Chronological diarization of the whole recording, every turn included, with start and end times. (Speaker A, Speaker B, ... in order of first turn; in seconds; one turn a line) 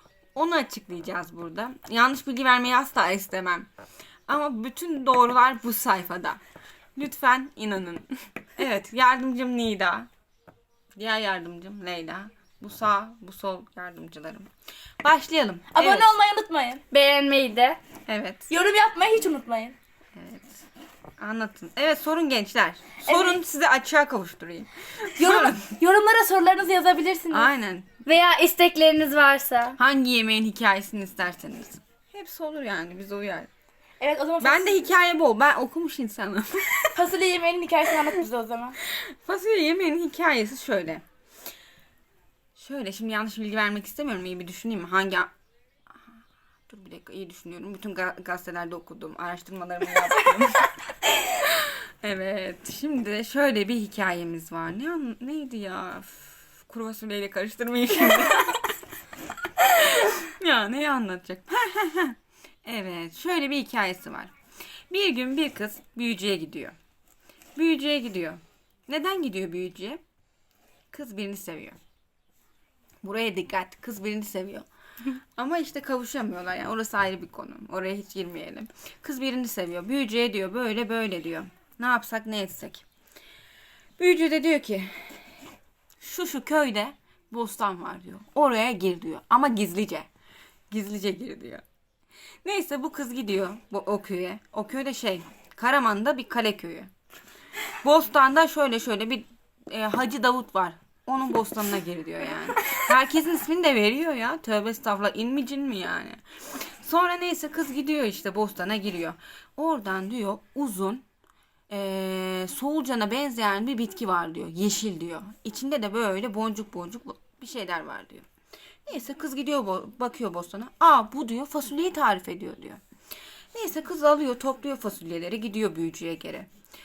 Speaker A: 0.3-3.7
Speaker A: 4.3-6.4
Speaker A: 7.0-10.1
Speaker A: 10.9-14.5
Speaker A: 15.0-16.1
Speaker B: 15.7-16.8
Speaker C: 16.9-17.8
Speaker A: 18.1-18.5
Speaker B: 18.5-19.8
Speaker A: 20.2-20.7
Speaker A: 21.2-25.7
Speaker B: 23.1-23.4
Speaker B: 25.2-27.5
Speaker A: 27.3-28.0
Speaker C: 28.1-29.8
Speaker A: 29.8-33.5
Speaker B: 34.0-34.8
Speaker A: 34.4-37.0
Speaker B: 36.9-38.8
Speaker A: 38.8-41.0
Speaker A: 42.6-45.3
Speaker A: 46.7-58.7
Speaker A: 59.6-64.3
Speaker A: 64.9-66.8
Speaker A: 67.6-70.0
Speaker A: 70.9-71.8
Speaker A: 73.0-74.7
Speaker A: 75.4-82.8
Speaker A: 84.0-85.3
Speaker A: 86.0-90.1
Speaker A: 90.7-91.6
Speaker A: 92.4-96.9
Speaker A: 97.8-111.0
Speaker A: 111.7-118.3
Speaker A: 118.9-122.8
Speaker A: 123.5-126.5